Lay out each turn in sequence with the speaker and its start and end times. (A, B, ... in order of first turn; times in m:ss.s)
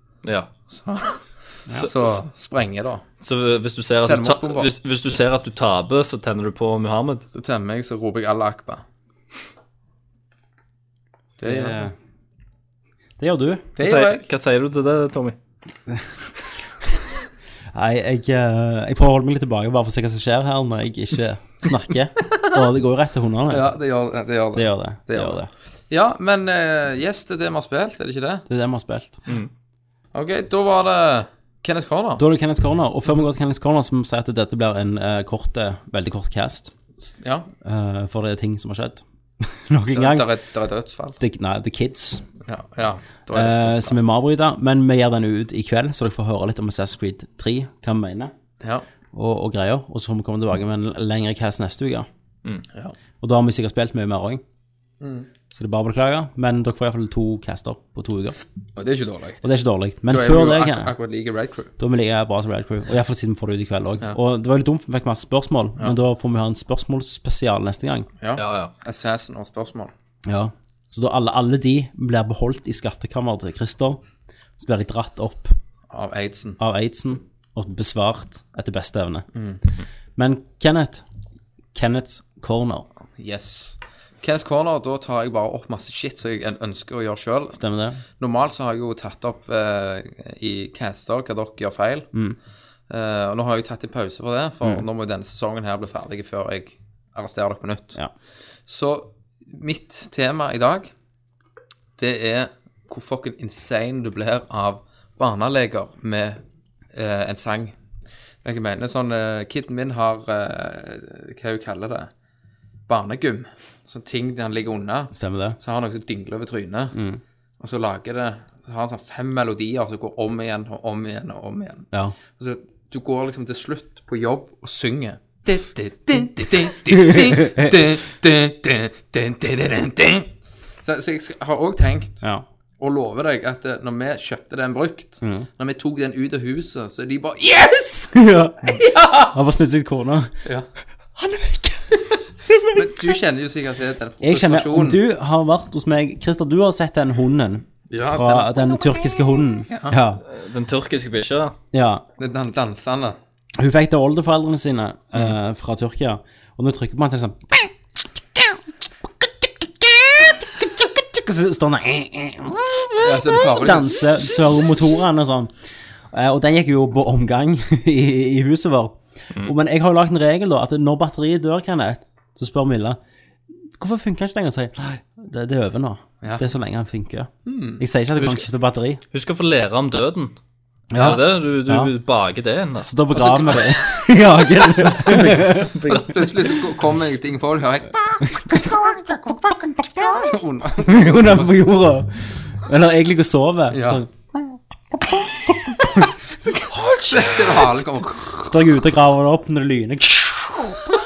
0:00.2-0:00.5 A
0:00.7-0:03.0 B
0:01.8-0:02.1 A
0:03.2-0:07.3 A
0:04.0-0:04.7 B
0:07.3-0:08.8 B
0:11.4-0:11.9 B
0:11.4-0:11.9 C
0:13.2-0:13.7 C
0:13.8-0:14.3 B
0:13.8-0:15.4 A
0:17.7-0:23.7 C
0:23.5-0:28.4 B
0:24.5-0:25.5 C
0:28.5-0:29.2 C
0:30.1-0:32.2 B
0:32.2-0:36.7 C
0:37.2-0:37.5 B
0:37.6-0:40.3 C
0:39.9-0:41.2 B
0:41.2-0:42.3 C
0:42.4-0:44.0 B
0:43.3-0:48.3 C
0:49.1-0:52.1 C
0:53.2-0:54.4 C
0:55.0-0:55.3 B
0:55.5-0:58.4 C
0:58.8-0:59.4 B
0:59.4-1:00.9 C
1:00.1-1:01.7 B
1:01.8-1:08.1 C
1:08.2-1:09.9 B
1:08.4-1:08.7 A
1:10.3-1:14.0 C
1:14.6-1:15.6 C
1:15.9-1:16.6 B
1:16.6-1:19.3 C
1:19.3-1:19.6 B
1:20.2-1:21.0 C
1:21.7-1:22.9 C
1:23.2-1:27.6 B
1:27.6-1:28.0 C
1:28.2-1:32.1 B
1:32.9-1:38.0 B
1:38.7-1:40.9 B
1:42.0-1:46.4 B
1:46.9-1:47.8 B
1:48.4-1:52.1 B
1:52.9-1:57.0 B
1:55.1-1:55.6 C
1:56.9-1:57.2 C
1:57.6-2:10.3 B
2:01.9-2:02.2 C
2:07.0-2:07.7 C
2:10.8-2:12.2 B
2:12.8-2:19.3 B
2:15.2-2:15.5 C
2:18.1-2:20.3 C
2:21.2-2:23.1 C
2:22.7-2:25.0 B
2:24.2-2:30.2 C
2:27.9-2:29.0 B
2:29.7-2:30.0 B
2:30.3-2:31.6 A
2:31.7-2:32.0 C
2:32.2-2:33.2 B
2:33.6-2:37.7 C
2:39.2-2:45.5 C
2:43.0-2:44.4 B
2:46.1-2:53.0 C
2:53.8-2:59.0 C
2:57.4-2:57.8 B
2:59.1-3:00.4 A
3:00.9-3:01.9 C
3:01.0-3:03.0 A
3:02.9-3:05.8 C
3:03.1-3:04.0 B
3:04.8-3:06.5 A
3:05.8-3:11.5 B
3:10.8-3:15.2 C
3:13.7-3:14.0 B
3:16.7-3:17.5 C
3:16.8-3:18.5 B
3:18.4-3:21.0 C